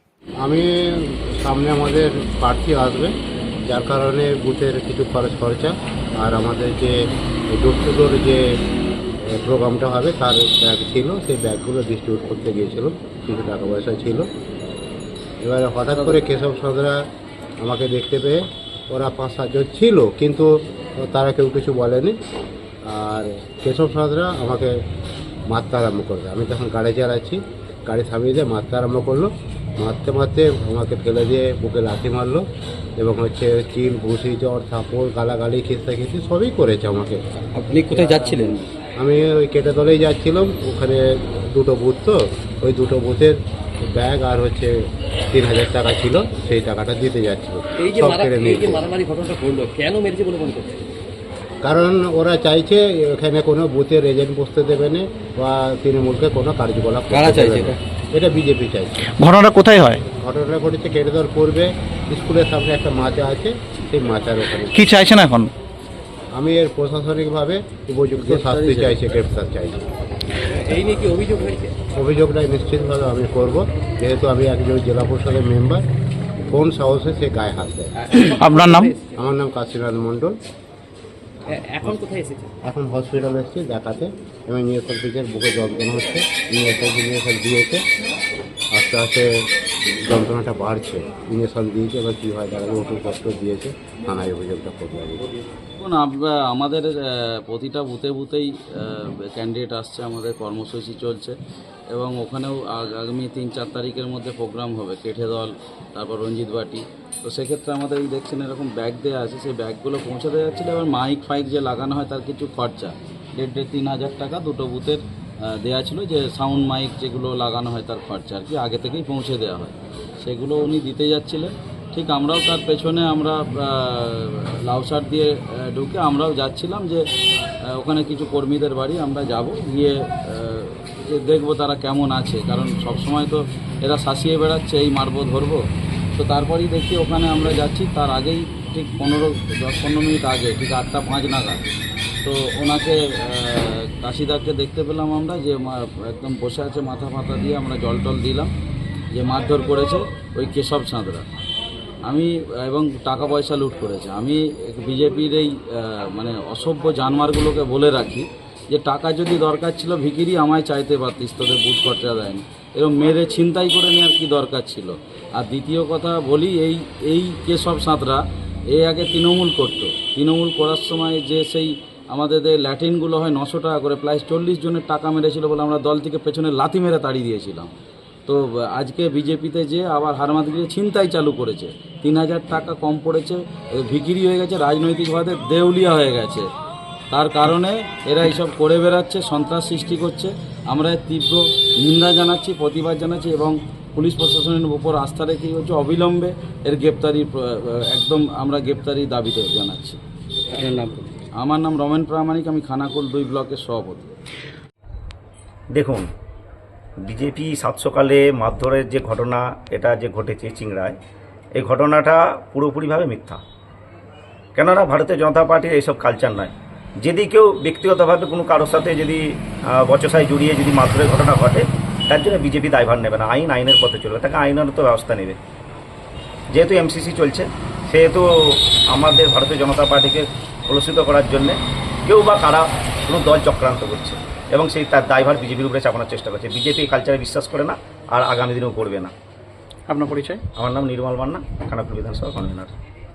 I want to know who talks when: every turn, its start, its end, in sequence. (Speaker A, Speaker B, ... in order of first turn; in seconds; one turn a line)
Speaker A: 0.4-3.1
Speaker A: 3.7-6.9
Speaker A: 7.5-8.4
Speaker A: 9.3-14.3
Speaker A: 15.4-17.0
Speaker A: 17.6-22.1
Speaker A: 22.9-24.7
Speaker A: 25.5-32.5
Speaker A: 33.0-37.2
Speaker B: 37.6-38.5
Speaker A: 39.0-43.4
Speaker A: 43.9-44.7
Speaker A: 45.3-48.9
Speaker C: 47.8-50.8
Speaker A: 51.6-59.0
Speaker B: 57.2-57.7
Speaker D: 59.2-60.0
Speaker A: 60.1-64.9
Speaker D: 64.8-65.5
Speaker A: 66.3-69.8
Speaker B: 68.2-69.0
Speaker C: 70.5-71.8
Speaker A: 72.0-75.8
Speaker A: 76.5-78.2
Speaker C: 78.1-79.1
Speaker D: 78.2-78.9
Speaker A: 79.1-80.4
Speaker C: 81.5-82.5
Speaker A: 82.7-87.8
Speaker A: 88.7-89.3
Speaker A: 90.1-95.2
Speaker B: 95.8-101.4
Speaker B: 101.9-127.0
Speaker B: 127.7-135.6
Speaker B: 136.2-141.6
Speaker B: 142.2-148.5
Speaker B: 149.1-151.2
Speaker B: 152.1-177.7
Speaker B: 178.3-186.5
Speaker B: 187.1-200.0
Speaker B: 201.4-204.1
Speaker E: 205.7-206.1
Speaker E: 207.1-211.0
Speaker E: 211.6-213.4
Speaker E: 214.6-225.4
Speaker E: 226.5-239.1
Speaker D: 239.9-240.4
Speaker E: 240.6-242.7